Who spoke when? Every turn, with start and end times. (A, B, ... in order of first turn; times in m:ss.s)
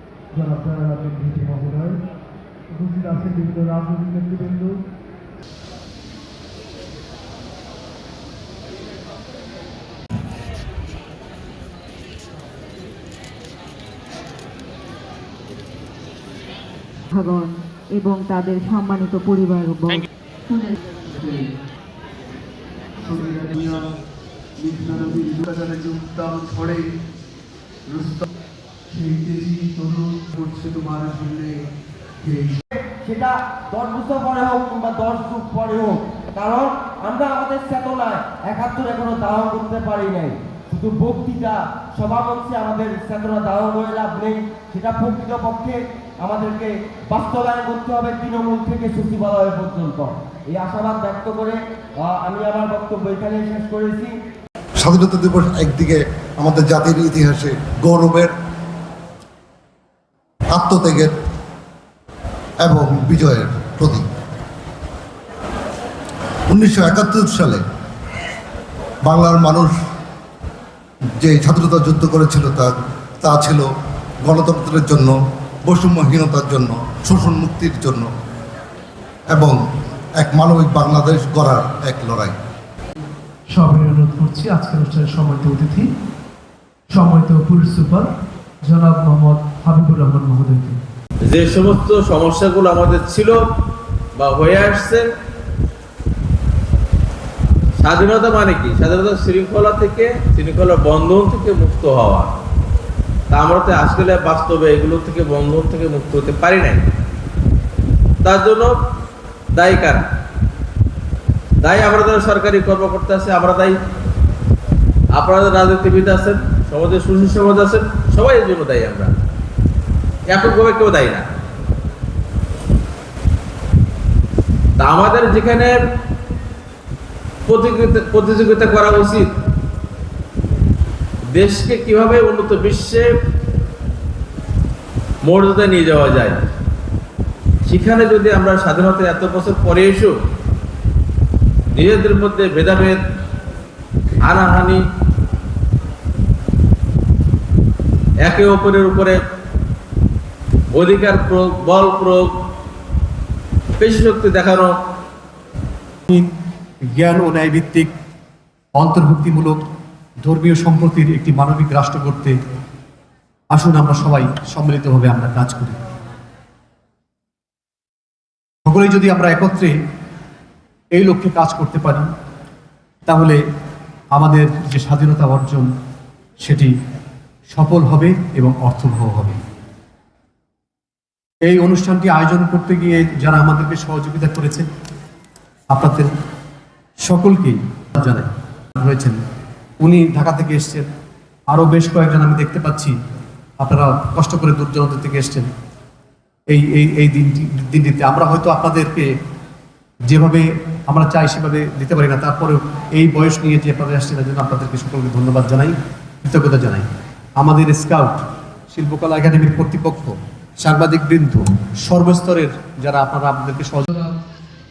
0:00.3-0:02.0 A
0:02.7-0:04.8 A
0:17.1-0:20.8 B
0:21.1-0:21.5 A
0:23.0-0:23.9 A
0:24.6-0:26.8 A
0:27.9-0:28.2 A
0:28.9-0:31.5 A
0:32.2-0:32.6 A
0:32.8-0:54.1 C
0:54.8-0:58.3 D
1:00.5-1:01.1 D
1:02.6-1:04.0 D
1:06.5-1:07.6 D
1:09.1-1:09.7 D
1:11.2-1:13.7 D
1:14.2-1:18.1 D
1:19.3-1:19.6 D
1:20.2-1:22.4 D
1:23.5-1:25.9 A
1:26.9-1:28.1 A
1:28.6-1:30.8 A
1:31.2-1:33.4 E
1:34.2-1:35.0 E
1:37.8-1:42.3 E
1:43.3-1:46.8 E
1:48.2-1:48.7 E
1:49.5-1:50.0 E
1:51.6-1:53.8 E
1:55.2-1:59.1 E
2:00.3-2:01.3 E
2:04.8-2:05.8 E
2:07.5-2:09.3 E
2:11.4-2:13.1 E
2:15.2-2:16.4 E
2:17.7-2:20.1 E
2:21.7-2:23.0 E
2:24.2-2:24.8 E
2:28.2-2:29.2 E
2:30.7-2:32.3 E
2:33.8-2:34.7 E
2:36.8-2:37.9 F
2:38.8-2:39.6 F
2:40.2-2:42.4 F
2:43.5-2:45.8 F
2:48.7-2:49.7 F
2:50.9-2:52.1 F
2:53.1-2:53.4 F
2:54.1-2:55.7 F
2:56.4-2:56.7 F
2:57.5-2:59.4 F
3:01.4-3:04.7 F
3:05.7-3:06.1 F
3:07.0-3:09.2 F
3:09.8-3:10.9 F
3:11.5-3:13.0 F
3:13.6-3:15.5 F
3:16.5-3:19.2 F
3:20.1-3:28.2 F
3:28.7-3:33.8 F
3:33.9-3:34.2 A